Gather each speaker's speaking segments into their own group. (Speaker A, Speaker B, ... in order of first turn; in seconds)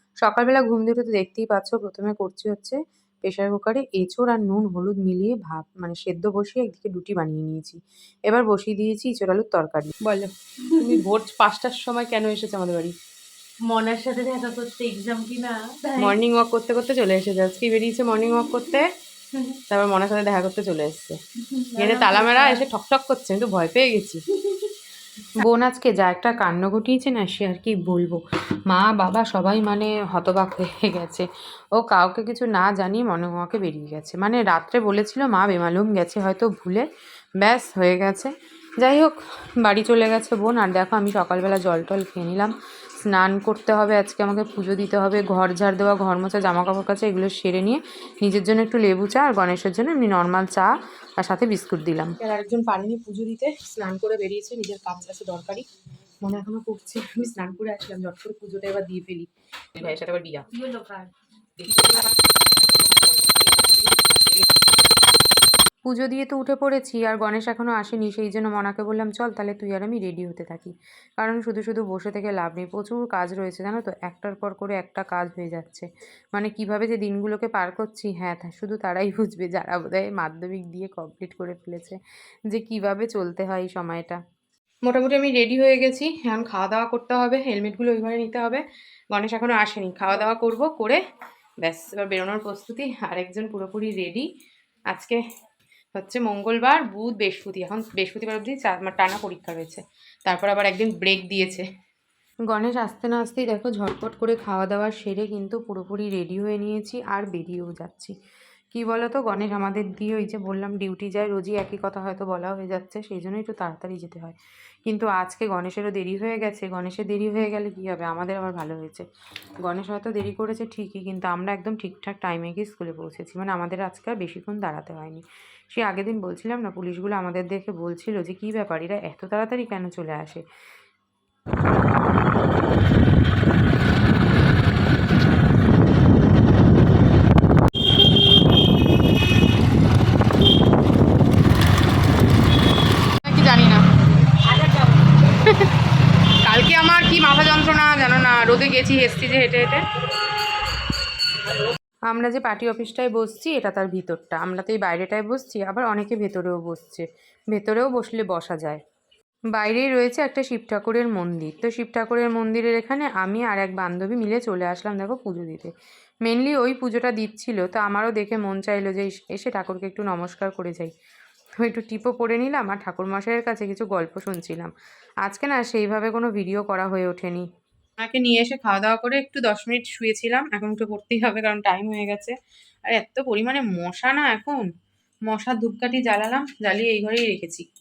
Speaker A: 0.2-12.9, 16.0-18.9, 19.7-21.2, 21.8-24.2, 25.3-36.9, 37.4-42.5, 43.0-55.6, 56.2-60.5, 61.6-64.6, 65.9-82.0, 82.5-84.2, 84.8-91.0, 91.6-94.3, 94.9-95.2, 95.9-101.6, 102.5-108.1, 108.7-114.3, 114.9-119.0, 119.6-130.4, 143.2-143.8, 146.4-149.8, 152.1-158.8, 159.5-165.7, 166.2-170.9, 171.6-174.7, 175.2-177.5, 178.0-182.3, 182.9-184.7, 185.3-187.6
Speaker B: 10.7-11.0, 13.7-16.2, 21.4-22.6, 60.5-61.1, 144.5-144.9